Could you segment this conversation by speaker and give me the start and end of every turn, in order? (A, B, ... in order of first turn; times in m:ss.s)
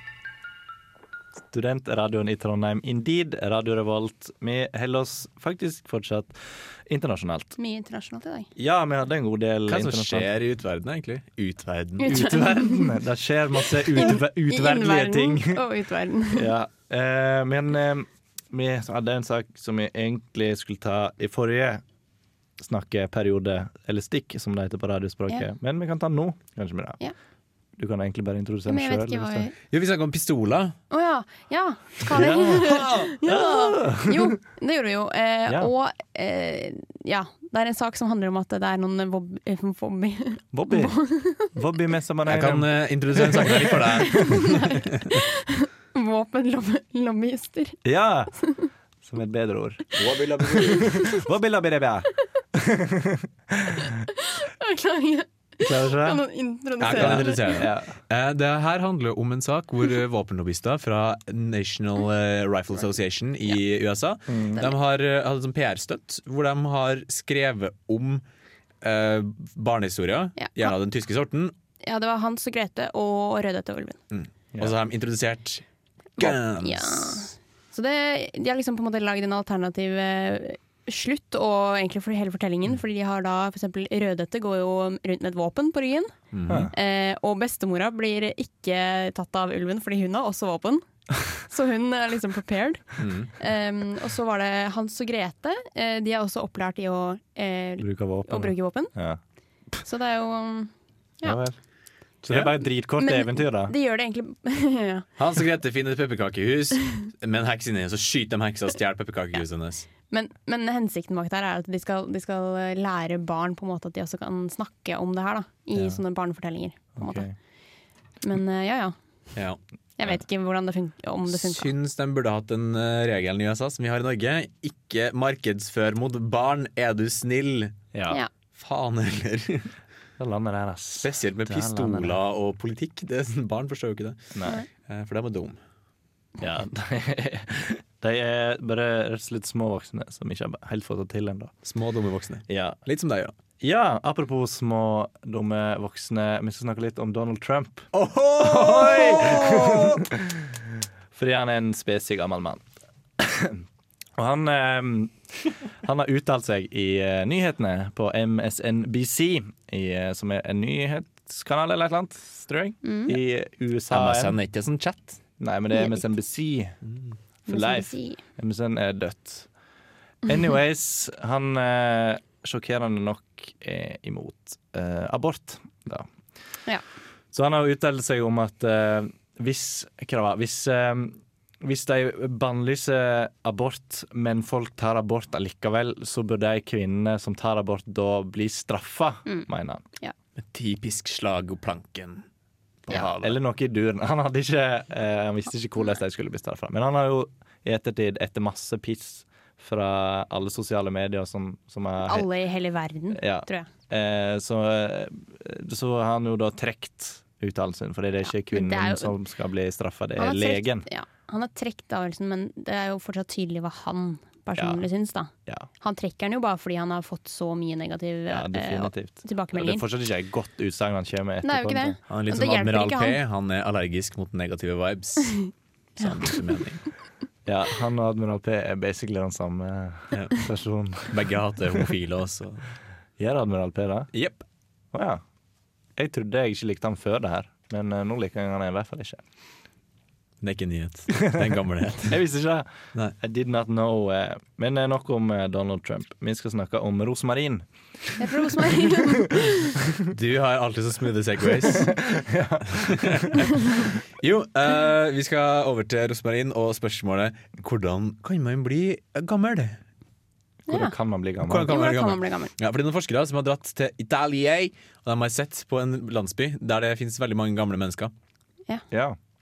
0:01.5-0:07.6 A
0:07.6-0:08.5 B
0:08.6-0:10.3 A
0:09.7-0:12.3 C
0:12.0-0:12.9 B
0:12.0-0:15.6 A
0:13.9-0:16.5 B
0:16.3-0:21.8 A
0:22.6-0:27.0 A
0:27.8-0:29.5 A
0:28.7-0:29.5 B
0:29.7-0:30.8 C
0:30.9-0:41.5 B
0:32.1-0:34.4 A
0:32.5-0:33.1 C
0:40.5-0:44.4 A
0:42.3-0:44.8 C
0:44.1-0:47.8 B
0:47.8-0:48.3 A
0:48.4-0:48.7 B
0:49.0-0:53.9 A
0:50.0-0:51.0 C
0:53.9-0:57.6 B
0:55.6-0:56.2 A
0:56.8-0:58.0 A
0:56.8-1:08.2 C
1:04.3-1:04.6 A
1:08.8-1:11.5 C
1:10.4-1:10.7 B
1:11.8-1:14.0 B
1:14.1-1:15.6 C
1:16.2-1:17.2 C
1:16.2-1:26.1 B
1:26.3-1:26.7 C
1:26.5-1:26.7 A
1:26.7-1:38.9 B
1:33.0-1:33.3 C
1:37.8-1:39.2 A
1:39.8-1:40.7 B
1:41.2-1:41.6 A
1:42.2-1:43.7 A
1:43.0-1:45.0 B
1:45.2-1:49.9 C
1:50.1-1:57.3 B
1:55.7-1:56.0 A
1:57.0-1:57.3 A
1:58.2-1:58.9 B
2:00.0-2:01.7 B
2:01.3-2:07.8 C
2:07.9-2:08.2 A
2:08.6-2:09.7 C
2:10.2-2:12.2 A
2:11.0-2:14.3 C
2:14.3-2:14.6 A
2:14.9-2:15.6 C
2:16.4-2:21.5 A
2:21.6-2:23.4 C
2:22.5-2:22.8 A
2:23.6-2:30.6 A
2:27.9-2:30.1 C
2:31.1-2:32.6 A
2:33.2-2:33.6 A
2:34.2-2:35.1 A
2:35.8-2:44.4 A
2:42.8-2:43.1 B
2:43.9-2:45.2 C
2:45.4-2:46.8 A
2:45.7-2:46.0 B
2:47.5-2:48.2 B
2:47.5-2:49.5 A
2:50.2-2:56.1 A
2:57.3-3:09.8 A
3:10.4-3:12.2 C
3:12.9-3:13.4 C
3:12.9-3:22.3 A
3:22.0-3:23.7 B
3:23.1-3:30.9 A
3:28.2-3:29.1 B
3:30.2-3:39.8 B
3:34.6-3:34.8 A
3:38.3-3:42.0 A
3:41.4-3:43.2 B
3:42.1-3:46.8 C
3:47.4-3:51.2 A
3:51.1-3:52.7 C
3:53.2-3:54.1 A
3:54.1-3:54.4 C
3:54.9-3:55.2 A
3:56.0-3:59.2 A
4:00.4-4:02.2 C
4:02.1-4:07.6 A
4:08.2-4:09.7 B
4:08.4-4:09.1 A
4:10.1-4:11.9 C
4:11.6-4:13.4 A
4:12.8-4:19.8 C
4:20.7-4:20.9 B
4:20.7-4:21.7 A
4:21.4-4:28.1 C
4:21.7-4:22.5 B
4:28.9-4:29.2 A